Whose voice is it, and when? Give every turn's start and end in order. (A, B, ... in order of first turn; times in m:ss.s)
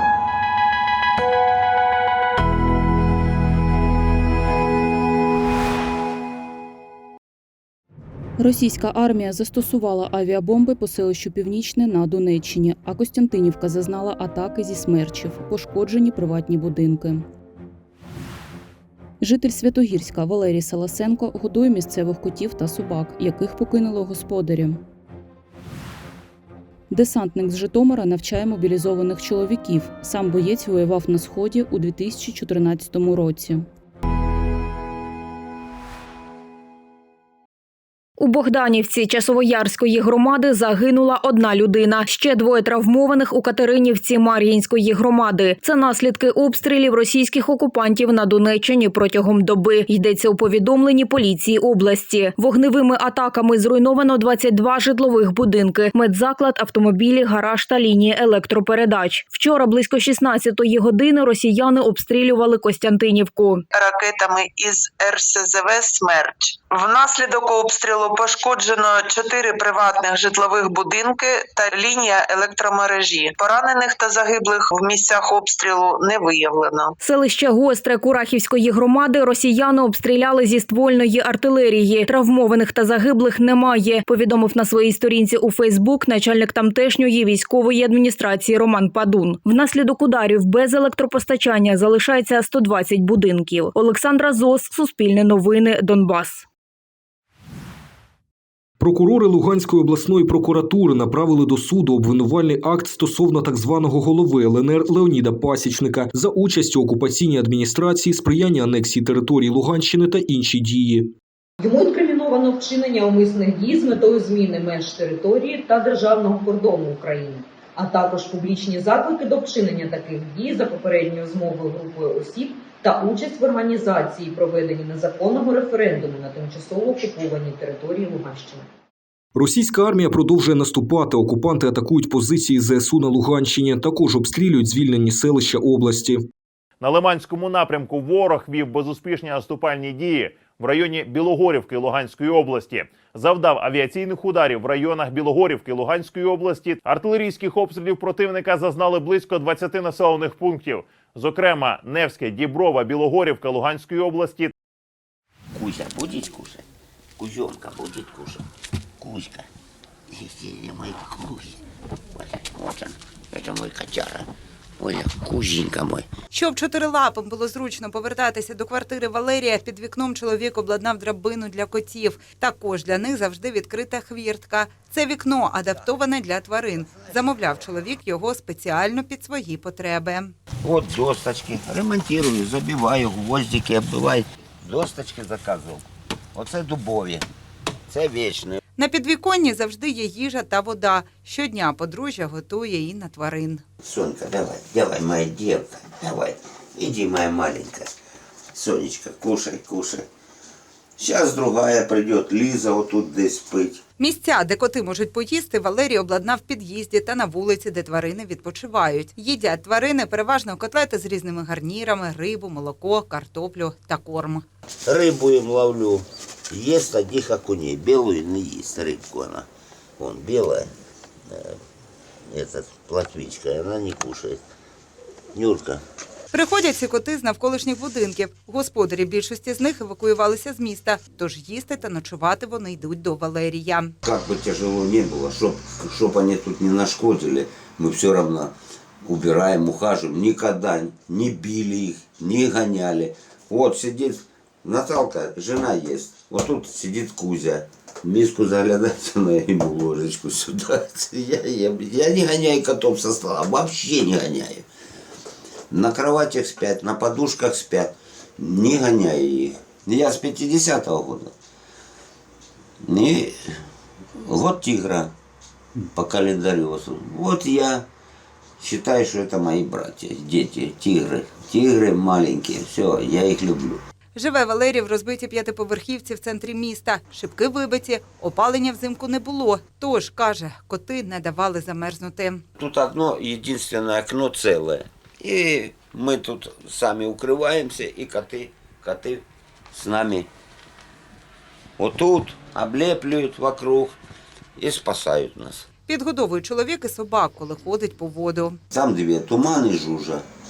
0:08.4-0:17.3 A
0:19.2-0:24.8 A
0:26.9-0:33.7 A
0:38.2-1:03.6 B
1:03.7-1:16.9 C
1:17.0-1:36.4 B
1:38.8-1:51.1 D
1:51.6-2:08.6 E
2:09.3-2:16.3 D
2:16.8-2:34.5 F
2:35.5-2:36.6 G
2:37.2-2:38.4 G
2:39.0-2:39.4 G
2:40.1-2:41.6 G
2:42.2-2:44.3 G
2:44.8-2:46.1 G
2:46.3-3:00.3 H
3:00.6-3:07.2 G
3:07.9-3:08.6 G
3:08.8-3:13.6 H
3:13.8-3:17.9 G
3:18.5-3:20.0 G
3:21.0-3:23.8 G
3:24.0-3:34.4 H
3:34.8-3:39.5 G
3:40.0-3:40.7 G
3:41.3-3:41.6 G
3:42.3-3:44.4 G
3:45.3-3:45.8 G
3:46.3-3:53.9 H
3:54.0-3:58.5 G
3:59.0-4:14.6 G
4:15.7-4:21.3 G
4:22.8-4:23.6 G
4:24.2-4:25.1 G
4:25.9-4:27.8 G
4:28.6-4:33.8 G
4:34.1-4:42.4 H
4:42.6-4:50.3 G
4:51.8-4:54.0 G
4:54.6-4:55.6 G
4:55.9-4:58.6 H
4:58.7-5:00.2 G